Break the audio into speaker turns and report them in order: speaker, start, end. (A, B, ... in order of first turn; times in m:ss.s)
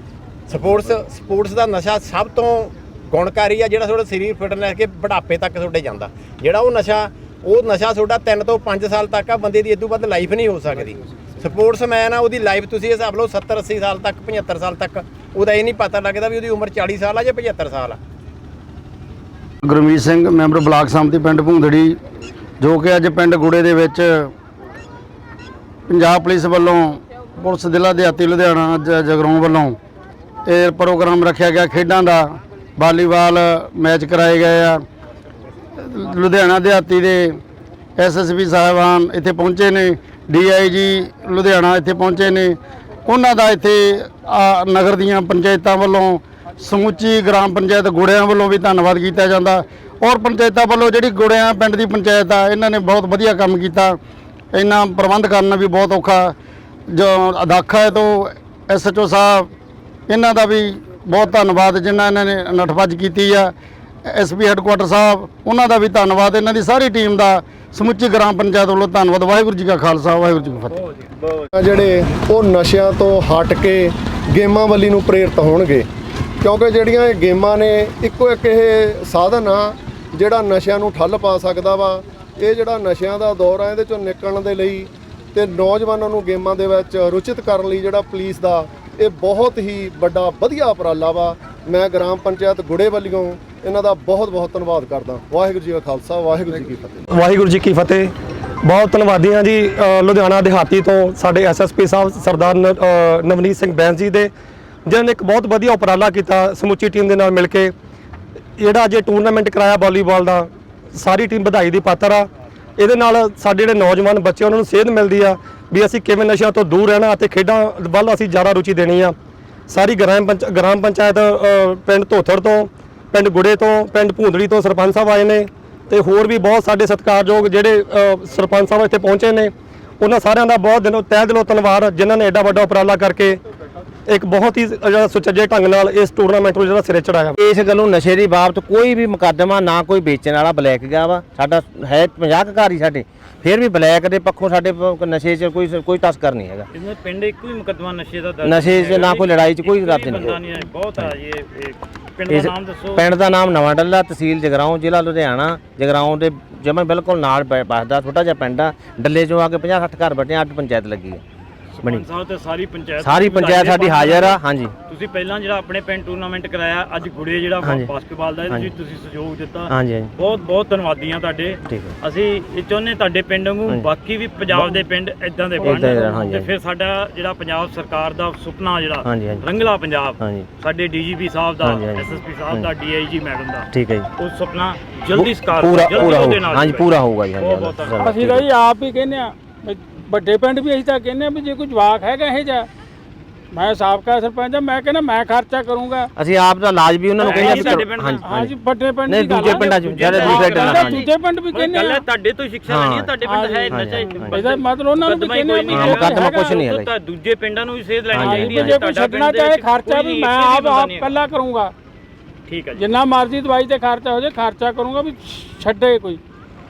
0:00.5-0:18.0 A
0:19.6-0:22.0 B
0:22.6-0:24.3 B
0:25.9-0:29.8 B
0:30.5-0:34.8 B
0:35.8-0:37.4 B
0:38.0-0:54.0 B
0:54.5-0:56.4 B
0:56.9-0:59.5 B
1:00.1-1:03.5 B
1:04.1-1:10.8 B
1:10.7-1:11.0 C
1:11.5-1:15.9 D
1:16.4-1:37.0 D
1:37.1-1:38.1 E
1:38.6-1:44.3 E
1:44.9-1:47.7 E
1:48.6-1:59.2 E
1:59.7-2:13.4 E
2:14.1-2:17.4 E
2:17.4-2:26.7 F
2:26.7-2:33.1 C
2:28.4-2:30.4 F
2:32.3-2:41.2 F
2:41.8-3:08.3 C
2:43.0-2:44.7 F
2:47.6-2:47.9 F
2:49.7-2:50.1 F
2:55.6-2:56.5 F
2:59.0-2:59.4 F
3:00.2-3:00.5 F
3:01.6-3:02.7 F
3:03.7-3:04.1 F
3:05.1-3:08.5 F
3:08.0-3:12.7 G
3:13.5-3:16.1 G
3:16.2-3:21.0 F
3:17.2-3:18.3 C
3:17.4-3:22.0 G
3:19.4-3:31.2 C
3:22.7-3:23.2 F
3:23.2-3:26.6 G
3:23.7-3:24.4 F
3:25.7-3:26.9 F
3:28.1-3:28.8 F
3:28.2-3:31.7 G
3:32.5-3:32.9 C
3:32.8-3:36.2 G